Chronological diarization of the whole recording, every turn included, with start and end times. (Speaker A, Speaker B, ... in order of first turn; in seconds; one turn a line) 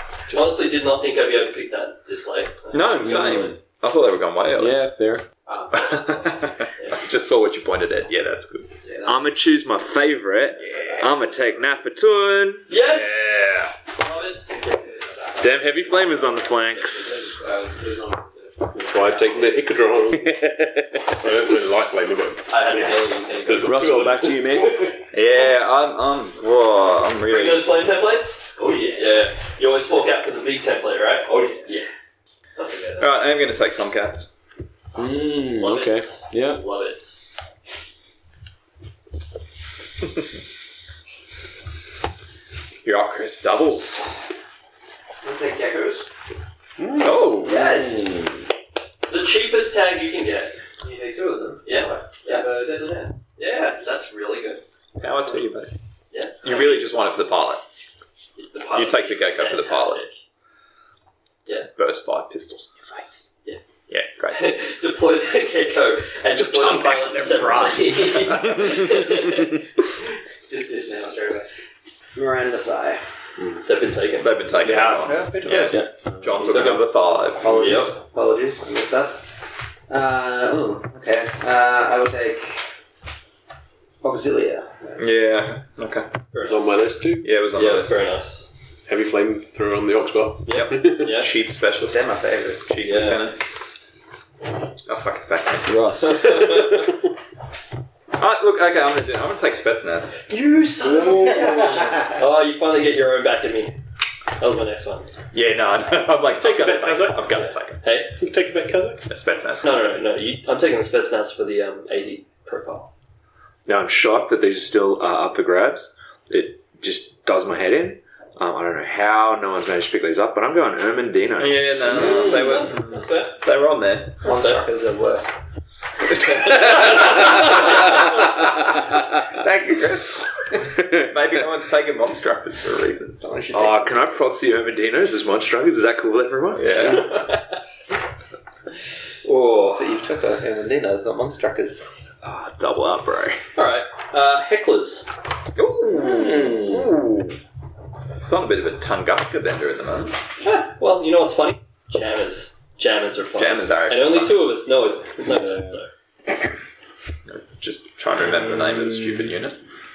Speaker A: 0.3-3.5
Speaker B: 2.7-4.8
Speaker C: 3.0-3.5
Speaker C: 4.5-5.2
Speaker D: 5.5-6.2
Speaker B: 5.7-8.7
Speaker D: 8.8-9.3
Speaker E: 9.0-13.7
Speaker B: 10.7-11.0
Speaker A: 12.7-15.5
Speaker E: 15.4-17.4
Speaker D: 16.9-18.8
Speaker F: 18.7-20.5
Speaker E: 20.3-21.1
Speaker F: 21.1-24.9
Speaker A: 22.5-24.0
Speaker C: 23.6-24.8
Speaker A: 24.6-24.9
Speaker B: 25.1-27.8
Speaker A: 27.2-31.9
Speaker E: 28.7-29.0
Speaker E: 31.3-31.7
Speaker A: 32.5-33.1
Speaker B: 33.0-34.3
Speaker C: 34.9-36.6
Speaker A: 35.5-37.1
Speaker B: 42.8-44.0
Speaker D: 45.2-46.1
Speaker B: 47.0-47.5
Speaker C: 47.0-48.4
Speaker A: 47.4-48.1
Speaker A: 49.1-50.6
Speaker D: 50.8-53.2
Speaker A: 51.6-52.5
Speaker A: 53.4-54.6
Speaker B: 55.0-55.7
Speaker A: 56.1-56.7
Speaker B: 56.4-57.6
Speaker A: 58.4-60.1
Speaker B: 58.7-60.0
Speaker B: 61.7-63.3
Speaker B: 63.9-64.5
Speaker A: 64.3-69.6
Speaker B: 66.3-69.5
Speaker D: 70.5-71.5
Speaker D: 72.1-73.0
Speaker A: 73.6-74.4
Speaker B: 74.2-77.6
Speaker D: 74.6-75.8
Speaker C: 75.5-76.5
Speaker A: 76.4-77.9
Speaker D: 77.4-79.3
Speaker D: 79.9-82.6
Speaker D: 84.0-84.9
Speaker B: 85.0-86.1
Speaker A: 86.3-86.8
Speaker F: 86.4-87.3
Speaker B: 87.2-88.0
Speaker A: 87.5-88.5
Speaker F: 88.9-91.1
Speaker A: 90.5-91.3
Speaker B: 90.5-92.1
Speaker D: 91.8-92.7
Speaker B: 92.6-93.4
Speaker A: 92.8-93.3
Speaker B: 94.8-95.7
Speaker C: 95.7-96.7
Speaker A: 96.0-96.8
Speaker B: 98.2-100.2
Speaker A: 100.3-103.8
Speaker C: 100.8-102.0
Speaker D: 101.4-102.1
Speaker A: 104.3-105.1
Speaker B: 105.3-107.8
Speaker F: 106.3-107.4
Speaker A: 107.3-108.1
Speaker F: 108.2-109.1
Speaker B: 109.1-110.0
Speaker A: 109.6-112.9
Speaker E: 113.7-122.1
Speaker B: 121.4-124.2
Speaker A: 121.9-123.4
Speaker D: 124.2-125.3
Speaker A: 124.2-124.6
Speaker A: 126.2-128.0
Speaker D: 126.4-127.2
Speaker B: 129.2-130.2
Speaker B: 130.8-133.3
Speaker D: 133.2-134.2
Speaker E: 133.5-136.8
Speaker B: 136.5-137.2
Speaker A: 136.8-137.4
Speaker A: 139.2-139.9
Speaker D: 139.8-141.9
Speaker E: 142.2-143.4
Speaker A: 143.6-145.1
Speaker B: 145.6-147.3
Speaker C: 145.9-146.9
Speaker B: 148.2-150.2
Speaker A: 150.4-155.9
Speaker B: 153.4-154.4
Speaker C: 155.3-155.7
Speaker B: 157.2-159.6